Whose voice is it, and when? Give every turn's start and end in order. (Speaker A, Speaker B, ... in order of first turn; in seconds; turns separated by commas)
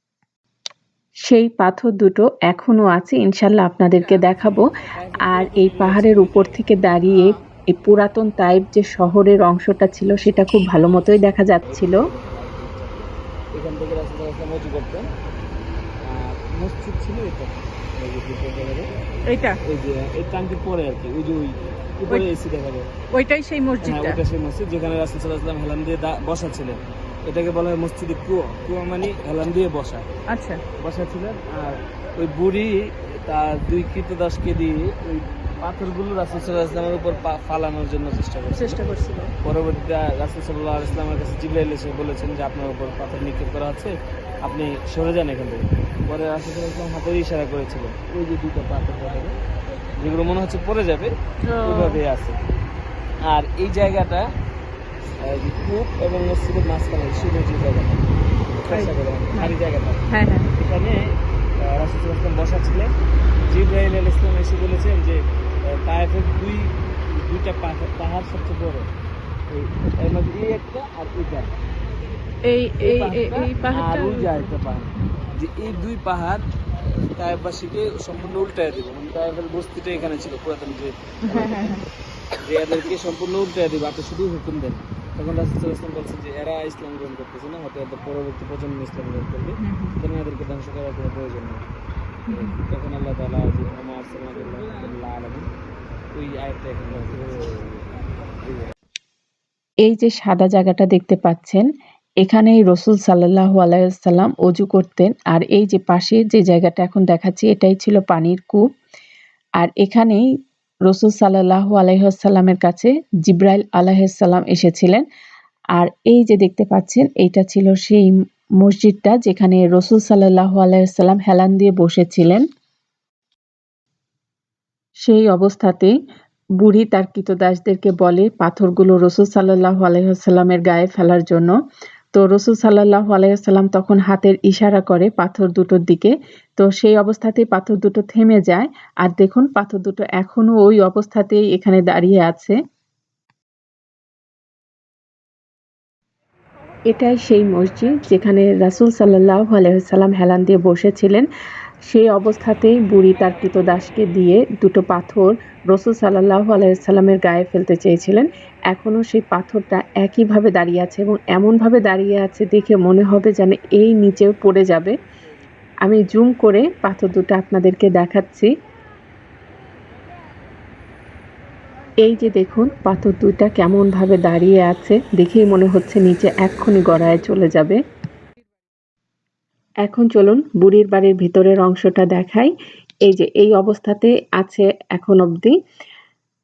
Speaker A: 1.2-4.7, Speaker B: 5.0-6.6, Speaker A: 5.3-12.0, Speaker B: 11.7-15.1, Speaker B: 16.1-18.9, Speaker C: 19.3-19.6, Speaker B: 19.6-22.9, Speaker C: 23.1-24.2, Speaker B: 23.8-30.1, Speaker C: 30.3-30.6, Speaker B: 30.8-38.9, Speaker C: 38.5-39.3, Speaker B: 39.4-49.4, Speaker B: 50.0-52.4, Speaker C: 51.5-52.0, Speaker B: 53.3-54.3, Speaker B: 55.2-58.0, Speaker B: 58.6-60.0, Speaker C: 58.7-59.5, Speaker C: 60.1-60.5, Speaker B: 60.6-62.9, Speaker B: 63.5-68.9, Speaker B: 69.5-71.5, Speaker C: 72.5-74.5, Speaker B: 72.8-81.8, Speaker C: 81.2-81.8, Speaker B: 82.4-91.6, Speaker C: 89.6-90.0, Speaker C: 92.3-92.6, Speaker B: 92.3-95.5, Speaker B: 96.1-97.8, Speaker A: 99.8-101.6, Speaker A: 102.2-108.6, Speaker A: 109.6-110.2, Speaker A: 110.9-115.0, Speaker A: 115.8-118.1, Speaker A: 118.6-122.5, Speaker A: 125.1-125.9, Speaker A: 126.6-131.5, Speaker A: 132.1-142.6, Speaker A: 146.9-151.3, Speaker A: 151.9-164.9, Speaker A: 165.8-168.5, Speaker A: 172.0-177.8, Speaker A: 179.8-182.5, Speaker A: 183.1-185.6